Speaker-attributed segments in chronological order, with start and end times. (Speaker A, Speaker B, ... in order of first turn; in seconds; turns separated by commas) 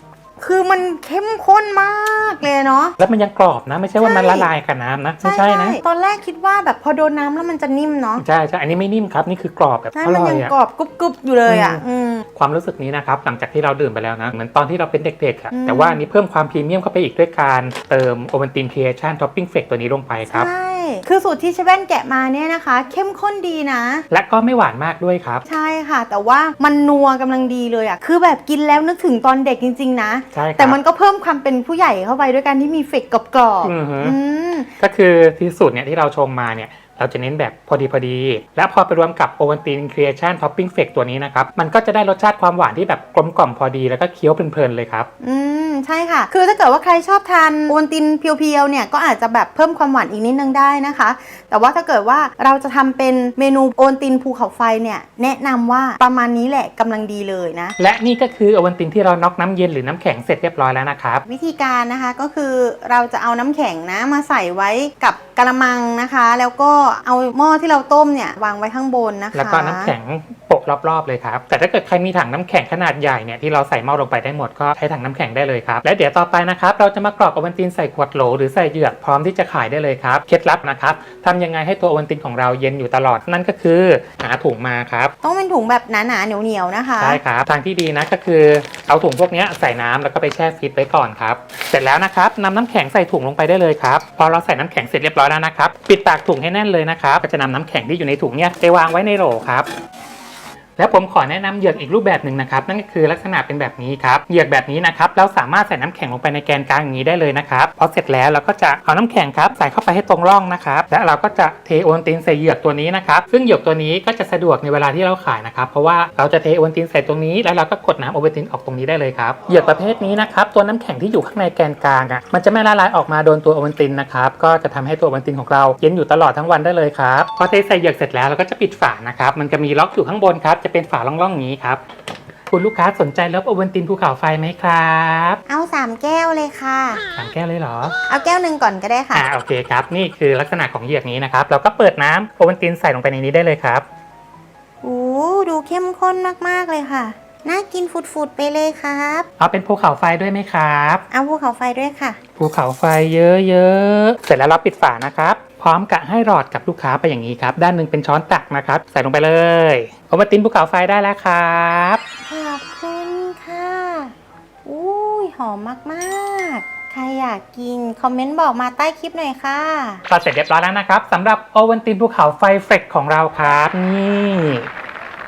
Speaker A: 0.4-3.0, Speaker B: 3.0-5.8, Speaker A: 4.0-4.5, Speaker A: 5.2-8.2, Speaker B: 8.2-10.5, Speaker A: 9.9-12.2, Speaker B: 11.5-11.8, Speaker B: 12.3-20.5, Speaker A: 15.5-16.0, Speaker A: 20.3-24.1, Speaker B: 24.1-25.4, Speaker A: 25.5-34.7, Speaker B: 30.3-30.8, Speaker B: 33.6-34.2, Speaker B: 34.8-45.1, Speaker A: 45.2-57.8, Speaker B: 57.8-61.2, Speaker A: 61.3-69.9, Speaker B: 69.3-85.1, Speaker A: 85.2-87.2, Speaker B: 87.0-99.7, Speaker B: 100.8-131.8, Speaker B: 132.5-135.4, Speaker A: 135.5-137.0, Speaker B: 137.2-137.9, Speaker A: 138.1-139.2, Speaker B: 139.1-143.8, Speaker A: 144.8-149.3, Speaker B: 149.4-151.0, Speaker A: 151.1-152.2, Speaker B: 152.4-162.0, Speaker A: 162.3-164.1, Speaker A: 164.7-170.1, Speaker B: 170.1-174.7